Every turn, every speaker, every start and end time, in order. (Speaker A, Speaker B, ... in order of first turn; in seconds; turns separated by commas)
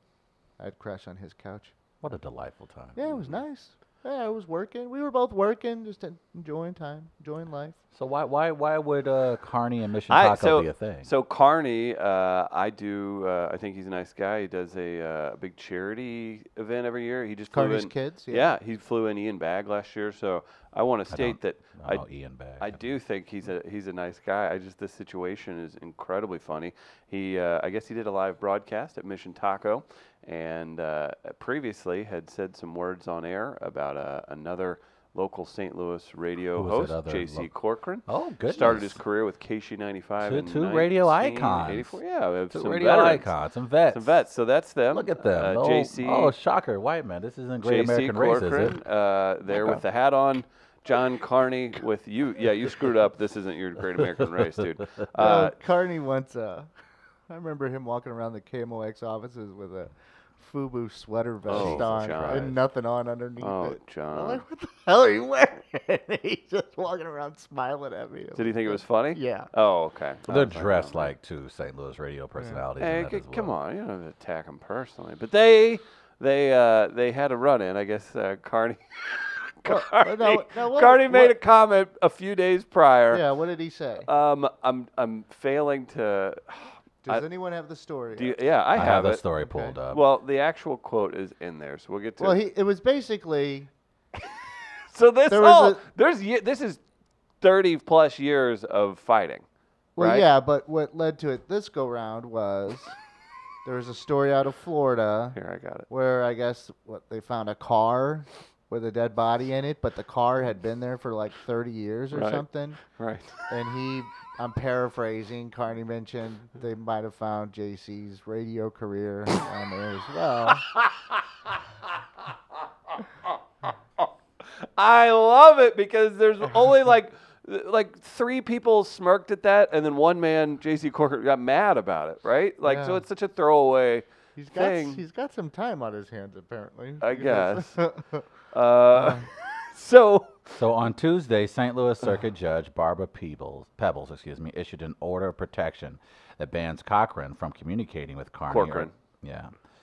Speaker A: 0.6-1.7, Speaker B: 2.0-3.2, Speaker A: 3.0-7.8, Speaker B: 8.0-11.1, Speaker C: 10.1-22.0, Speaker A: 17.5-18.5, Speaker B: 21.1-22.8, Speaker C: 22.6-43.3, Speaker B: 36.6-37.5, Speaker B: 38.1-39.0, Speaker B: 40.2-42.0, Speaker B: 42.5-44.2, Speaker C: 43.9-46.3, Speaker B: 44.9-48.8, Speaker C: 47.6-55.5, Speaker B: 49.5-49.8, Speaker A: 55.2-56.7, Speaker A: 57.3-69.5, Speaker C: 61.5-62.6, Speaker B: 61.5-62.5, Speaker C: 63.4-64.4, Speaker C: 68.4-71.1, Speaker B: 70.3-73.6, Speaker C: 72.8-83.2, Speaker A: 79.7-81.3, Speaker A: 83.1-84.1, Speaker C: 84.0-87.2, Speaker A: 87.0-88.4, Speaker C: 88.2-89.2, Speaker B: 88.7-90.0, Speaker A: 89.4-89.8, Speaker C: 89.9-92.4, Speaker A: 92.2-93.7, Speaker C: 94.9-96.8, Speaker A: 95.3-95.8, Speaker C: 97.4-99.4, Speaker A: 100.0-103.0, Speaker C: 100.0-100.3, Speaker A: 103.7-105.4, Speaker C: 105.3-105.9, Speaker A: 105.9-112.8, Speaker C: 112.1-113.4, Speaker A: 113.5-120.7, Speaker C: 124.8-135.0, Speaker A: 132.7-133.0, Speaker A: 134.4-138.2, Speaker C: 137.0-137.8, Speaker C: 138.5-140.5, Speaker B: 140.5-149.5, Speaker C: 148.5-148.9